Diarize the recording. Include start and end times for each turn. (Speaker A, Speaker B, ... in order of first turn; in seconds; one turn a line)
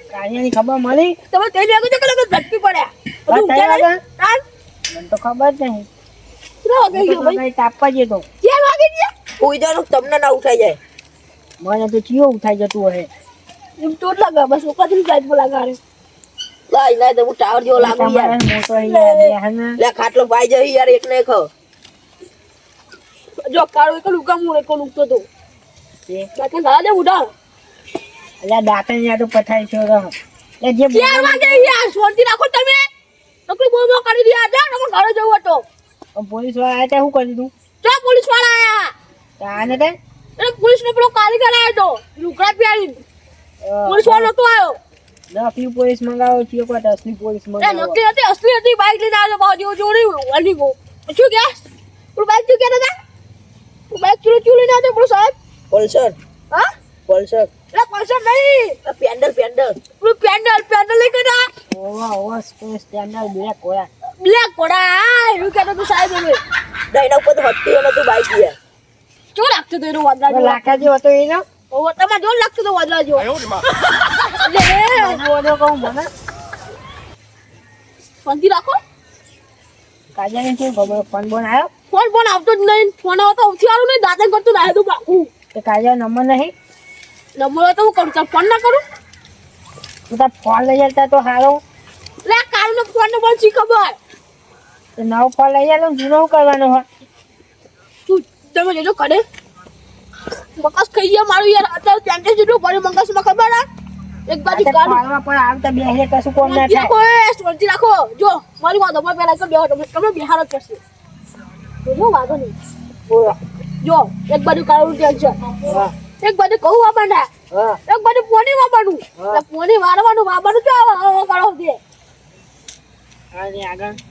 Speaker A: 0.1-1.2
Speaker B: 1.3-4.4
Speaker A: 3.3-4.0
Speaker A: 4.9-5.9
Speaker B: 6.6-7.4
Speaker A: 6.9-8.2
Speaker B: 8.4-9.1
Speaker C: 9.4-10.8
Speaker A: 11.6-13.1
Speaker B: 13.8-15.8
Speaker C: 16.7-18.4
Speaker A: 17.7-19.8
Speaker B: 18.8-19.3
Speaker C: 19.8-21.5
Speaker B: 23.5-25.2
Speaker B: 26.4-27.3
Speaker A: 28.4-31.7
Speaker B: 30.9-32.8
Speaker B: 33.5-35.6
Speaker A: 36.1-37.5
Speaker B: 37.8-38.9
Speaker A: 39.4-40.0
Speaker B: 40.4-43.0
Speaker A: 43.6-44.3
Speaker B: 43.9-44.8
Speaker A: 45.3-48.0
Speaker B: 47.6-51.6
Speaker B: 52.1-52.9
Speaker B: 53.9-55.3
Speaker C: 55.7-56.1
Speaker C: 57.1-57.5
Speaker B: 57.7-58.8
Speaker C: 58.8-59.8
Speaker B: 60.0-61.5
Speaker A: 61.7-63.9
Speaker B: 64.2-66.4
Speaker C: 66.9-68.5
Speaker B: 69.3-70.8
Speaker A: 70.3-71.4
Speaker B: 71.7-73.3
Speaker B: 74.3-75.2
Speaker A: 74.9-76.1
Speaker B: 78.2-78.8
Speaker A: 80.1-81.7
Speaker B: 81.9-85.3
Speaker A: 85.5-86.5
Speaker B: 87.3-88.8
Speaker A: 90.1-91.6
Speaker B: 92.2-94.0
Speaker A: 95.0-96.8
Speaker B: 98.1-99.2
Speaker B: 100.6-103.7
Speaker B: 104.3-105.0
Speaker A: 104.5-106.9
Speaker B: 106.4-110.8
Speaker B: 111.8-112.5
Speaker A: 113.1-113.3
Speaker B: 113.8-115.4
Speaker A: 115.6-115.9
Speaker B: 116.2-117.3
Speaker A: 117.5-117.8
Speaker B: 117.9-121.8
Speaker A: 119.2-119.4
Speaker A: 123.3-124.0